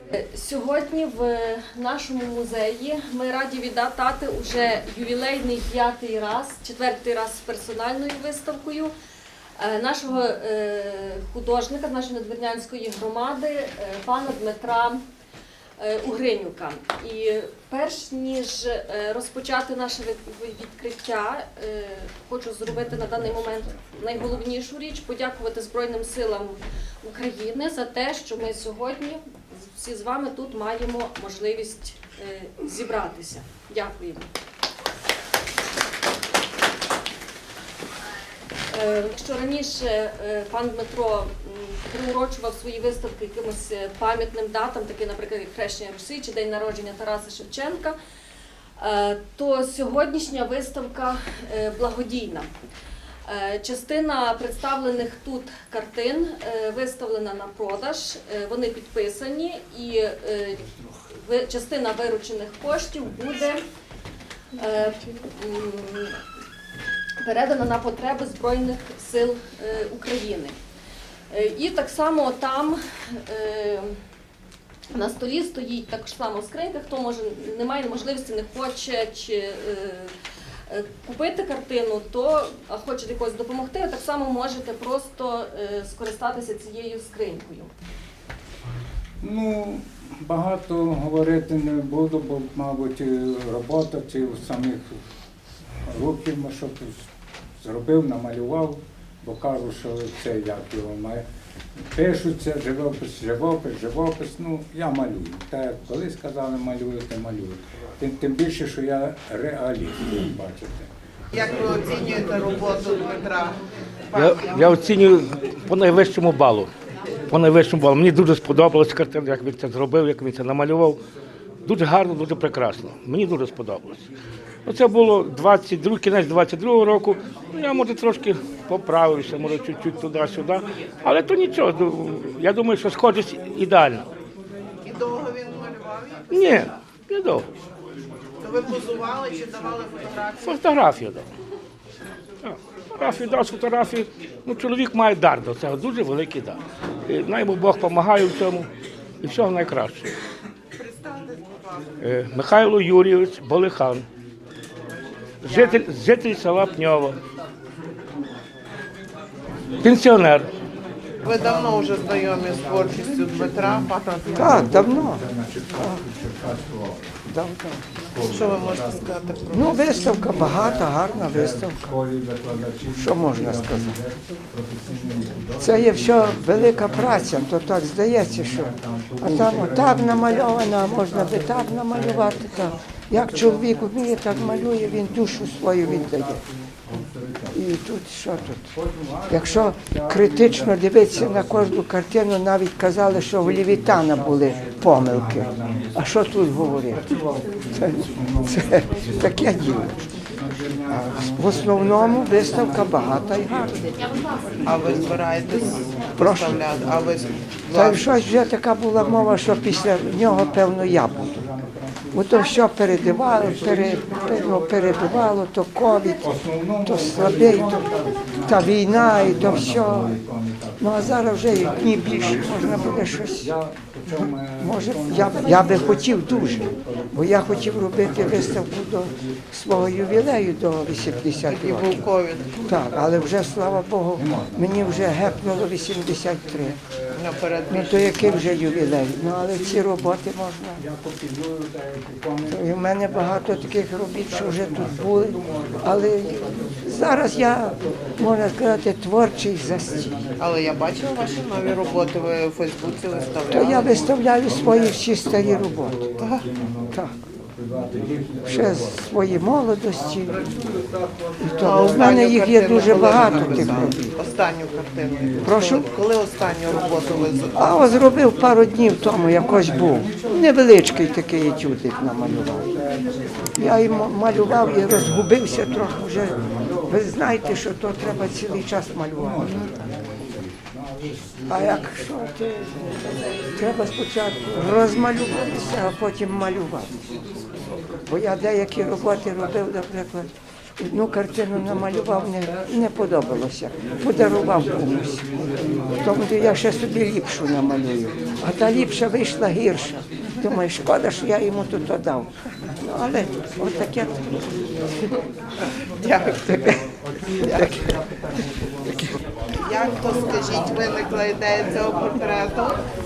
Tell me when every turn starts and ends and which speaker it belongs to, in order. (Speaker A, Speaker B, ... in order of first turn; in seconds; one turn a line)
Speaker A: 0.3-8.9
Speaker A: 9.6-15.0
Speaker A: 15.8-29.2
Speaker A: 29.8-34.3
Speaker A: 38.7-48.0
Speaker A: 48.8-52.5
Speaker A: 53.3-63.6
Speaker A: 64.6-66.2
Speaker A: 67.2-70.5
Speaker A: 71.3-74.0
Speaker A: 74.9-80.1
Speaker A: 80.7-87.7
Speaker B: 89.2-95.0
Speaker B: 95.9-97.0
Speaker B: 97.6-101.2
Speaker B: 101.9-110.9
Speaker C: 111.3-113.6
Speaker C: 114.1-114.8
Speaker D: 114.1-116.7
Speaker D: 117.3-121.0
Speaker D: 121.7-124.0
Speaker D: 124.7-134.1
Speaker C: 134.8-136.5
Speaker D: 136.3-137.5
Speaker C: 138.4-140.6
Speaker D: 140.4-141.2
Speaker D: 142.4-148.7
Speaker D: 149.2-150.1
Speaker C: 150.8-151.9
Speaker D: 152.0-154.1
Speaker D: 155.4-157.2
Speaker D: 159.8-160.5
Speaker C: 161.2-164.8
Speaker E: 164.4-166.0
Speaker B: 164.4-167.0
Speaker E: 167.3-167.8
Speaker C: 168.3-170.0
Speaker E: 169.5-172.0
Speaker B: 171.4-175.7
Speaker E: 172.9-174.0
Speaker E: 175.6-186.4
Speaker B: 179.0-180.2
Speaker B: 186.9-187.5
Speaker E: 187.5-188.7
Speaker B: 188.8-190.7
Speaker E: 189.3-197.1
Speaker B: 191.3-191.5
Speaker B: 193.9-195.9
Speaker B: 197.1-198.5
Speaker E: 197.7-199.9
Speaker B: 200.4-201.8
Speaker E: 200.9-203.8
Speaker C: 204.7-208.1
Speaker E: 206.2-206.5
Speaker E: 207.8-211.5
Speaker B: 211.3-212.2
Speaker E: 212.1-216.3
Speaker B: 216.2-221.1
Speaker E: 216.8-217.8
Speaker E: 218.4-220.2
Speaker E: 220.8-223.5
Speaker B: 222.5-222.8
Speaker B: 223.4-226.7
Speaker E: 224.6-232.0
Speaker C: 231.5-232.6
Speaker E: 232.7-236.8
Speaker B: 234.2-234.6
Speaker C: 237.2-238.3
Speaker E: 237.7-240.8
Speaker B: 240.8-242.6
Speaker E: 242.5-250.3
Speaker B: 245.3-245.8
Speaker C: 250.4-254.0
Speaker E: 253.5-256.1
Speaker B: 256.0-256.8
Speaker C: 256.2-256.5
Speaker E: 256.9-257.2
Speaker B: 257.6-258.7
Speaker E: 258.5-260.4
Speaker E: 261.4-264.1
Speaker B: 261.4-262.0
Speaker C: 261.6-267.8
Speaker B: 263.1-263.8
Speaker E: 265.4-265.9
Speaker E: 267.6-272.7
Speaker E: 273.6-279.7
Speaker B: 276.7-276.9
Speaker B: 279.2-281.9
Speaker E: 281.5-282.6
Speaker E: 283.6-287.0
Speaker E: 288.1-304.2
Speaker C: 306.0-306.8
Speaker E: 307.5-307.8
Speaker C: 309.6-312.8